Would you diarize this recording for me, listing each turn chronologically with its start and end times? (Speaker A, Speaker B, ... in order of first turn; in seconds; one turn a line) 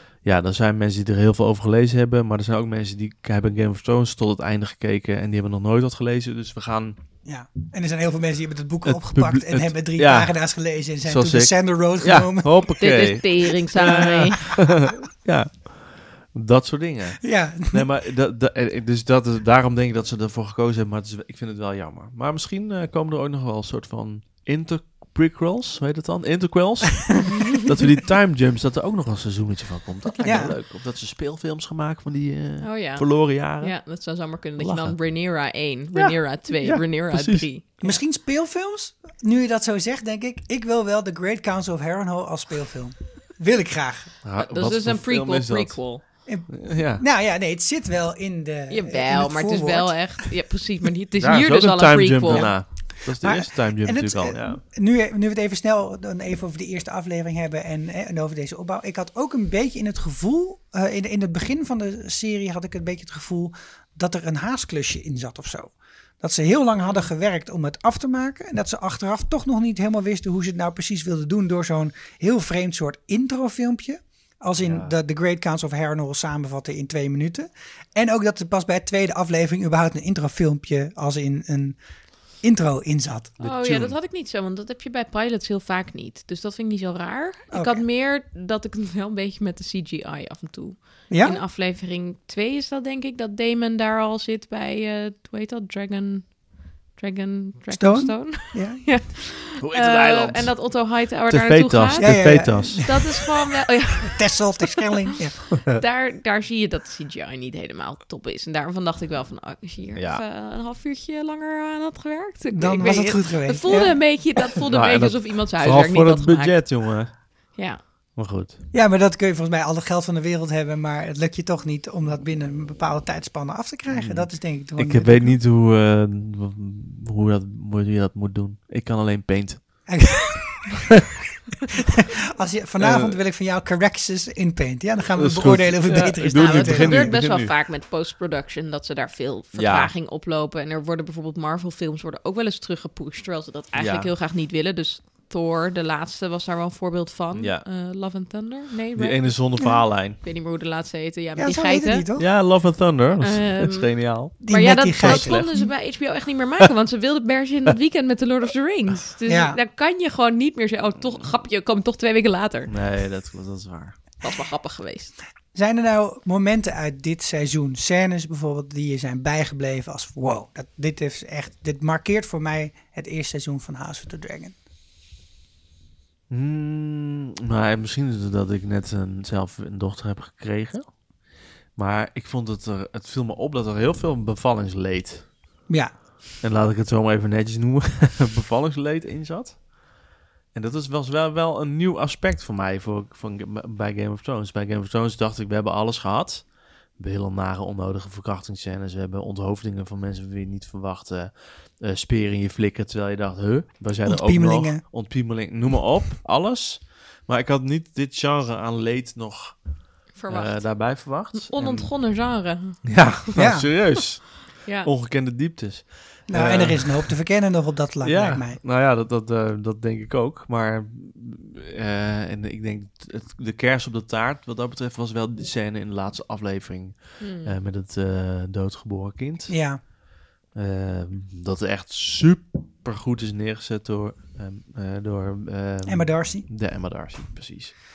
Speaker A: 0.2-7.0
Speaker B: 7.2-12.7
Speaker A: 8.8-10.4
Speaker A: 11.0-33.8
Speaker C: 12.8-14.6
Speaker B: 13.8-14.1
Speaker B: 17.2-17.8
Speaker C: 27.3-27.6
Speaker B: 30.2-30.5
Speaker C: 32.6-38.0
Speaker A: 34.6-35.0
Speaker A: 35.9-37.5
Speaker B: 37.8-44.1
Speaker A: 44.2-45.8
Speaker C: 44.4-46.0
Speaker B: 46.3-50.3
Speaker A: 46.5-47.0
Speaker C: 48.7-52.5
Speaker A: 51.2-54.6
Speaker B: 52.3-52.6
Speaker B: 53.2-81.8
Speaker C: 66.8-67.1
Speaker A: 74.6-75.0
Speaker B: 82.4-83.5
Speaker A: 83.4-84.0
Speaker C: 83.4-96.4
Speaker B: 87.5-87.8
Speaker B: 91.1-91.4
Speaker C: 96.9-104.8
Speaker B: 97.7-98.8
Speaker A: 99.6-102.9
Speaker B: 102.0-103.2
Speaker B: 104.0-105.4
Speaker C: 105.6-116.8
Speaker A: 110.0-110.2
Speaker B: 112.5-114.0
Speaker A: 114.7-117.1
Speaker C: 117.6-117.8
Speaker A: 118.2-118.6
Speaker B: 118.7-125.4
Speaker A: 123.9-129.9
Speaker B: 129.9-130.7
Speaker B: 132.4-137.2
Speaker A: 132.8-133.2
Speaker A: 135.2-137.5
Speaker C: 135.9-152.1
Speaker A: 139.5-139.9
Speaker A: 143.8-144.1
Speaker A: 147.3-147.6
Speaker A: 149.0-150.2
Speaker B: 151.4-152.3
Speaker A: 152.2-154.4
Speaker C: 153.2-162.7
Speaker B: 154.4-155.7
Speaker A: 154.9-155.5
Speaker B: 159.3-159.6
Speaker A: 162.7-164.0
Speaker C: 164.2-165.2
Speaker B: 165.5-174.6
Speaker A: 176.3-180.9
Speaker A: 181.8-185.3
Speaker B: 185.7-185.9
Speaker A: 186.4-189.7
Speaker A: 190.5-209.6
Speaker B: 204.1-204.8
Speaker C: 210.2-213.1
Speaker A: 210.3-211.9
Speaker A: 212.8-217.2
Speaker B: 213.4-213.7
Speaker C: 214.6-214.9
Speaker B: 216.3-218.6
Speaker A: 218.0-229.6
Speaker C: 227.2-227.6
Speaker B: 229.5-229.8
Speaker A: 230.5-237.8
Speaker B: 235.9-236.5